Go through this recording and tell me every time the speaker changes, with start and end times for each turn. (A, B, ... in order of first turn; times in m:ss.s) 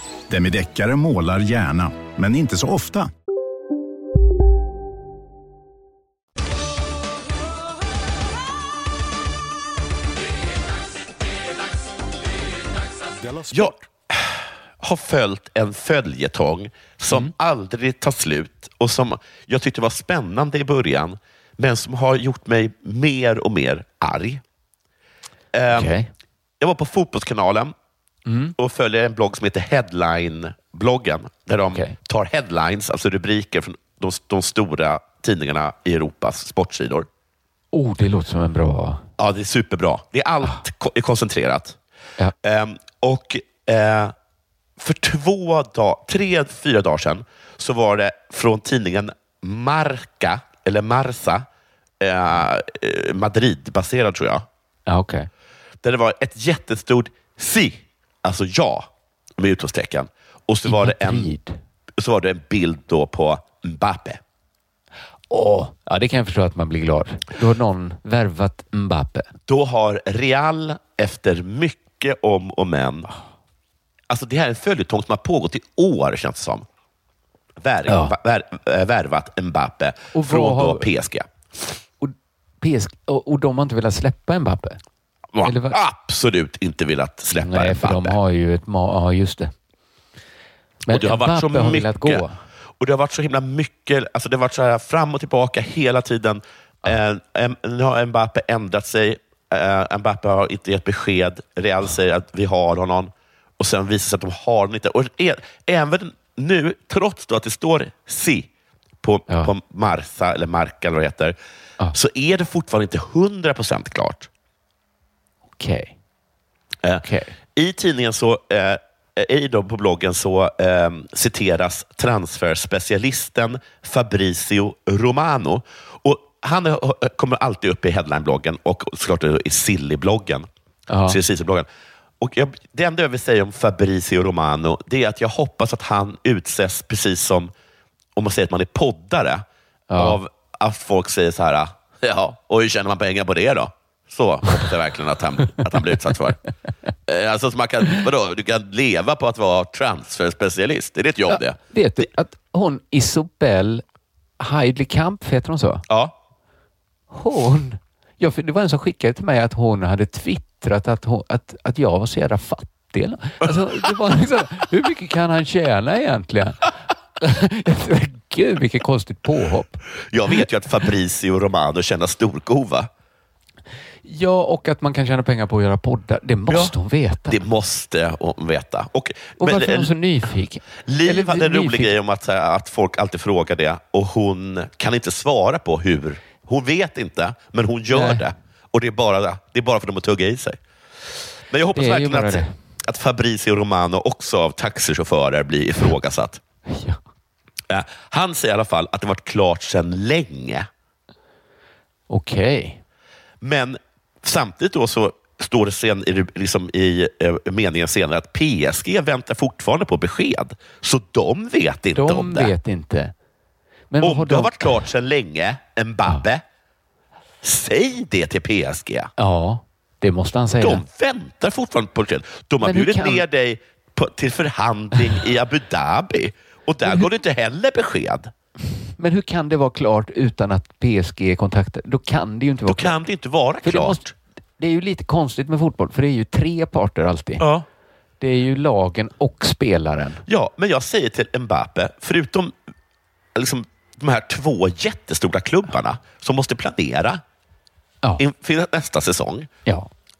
0:00.3-0:03.1 A
0:13.5-0:24.4 B
0:25.5-0:25.9 B
0:25.7-0:26.1 C
0:26.6-0:27.7 B
0:28.2-0:28.5 C
0:28.6-0:37.1 B
0:31.7-0:31.9 C
0:37.7-0:39.0 C
0:39.2-0:41.8 B
0:42.4-0:44.1 B
0:44.8-0:51.4 B
0:52.0-0:54.4 B
0:54.9-0:55.3 C
0:55.8-1:01.3 B
1:00.6-1:01.6 C
1:02.0-1:04.2 B
1:05.3-1:09.3 C
1:09.5-1:13.1 B
1:14.1-1:16.6 B
1:17.6-1:21.3 B
1:17.9-1:18.1 C
1:20.1-1:20.8 C
1:22.0-1:24.8 C
1:25.3-1:28.2 B
1:25.4-1:25.8 C
1:27.3-1:29.5 C
1:30.9-1:32.4 C
1:30.9-1:32.2 B
1:32.8-1:48.5 B
1:49.0-1:51.4 B
1:51.9-1:54.3 B
1:55.6-1:55.9 C
1:56.8-2:10.5 B
1:57.0-1:57.3 C
2:10.9-2:11.2 C
2:11.0-2:11.7 B
2:12.2-2:17.5 B
2:18.2-2:19.4 B
2:19.9-2:20.2 C
2:19.9-2:26.4 B
2:27.0-2:31.6 B
2:31.3-2:33.8 C
2:34.4-2:35.8 C
2:35.9-2:36.1 B
2:37.1-2:49.8 C
2:50.1-2:52.9 B
2:54.0-2:57.4 C
2:56.5-2:56.7 B
2:57.3-2:59.9 B
2:59.4-3:01.9 C
3:00.8-3:10.6 B
3:07.9-3:08.2 C
3:11.5-3:16.4 B
3:11.7-3:12.5 C
3:16.7-3:17.0 C
3:17.7-3:20.7 B
3:22.1-3:22.8 C
3:23.4-3:32.5 B
3:31.9-3:33.1 C
3:33.9-3:34.7 C
3:34.0-3:36.4 B
3:37.4-3:39.1 B
3:39.2-3:40.8 C
3:40.6-3:48.3 B
3:42.6-3:43.2 C
3:46.8-3:47.1 C
3:49.0-3:52.9 C
3:52.6-3:54.1 B
3:53.6-3:54.0 C
3:54.6-3:57.4 C
3:57.4-3:57.6 B
3:58.2-4:00.2 C
4:00.3-4:02.5 B
4:03.3-4:07.2 B
4:08.2-4:09.5 B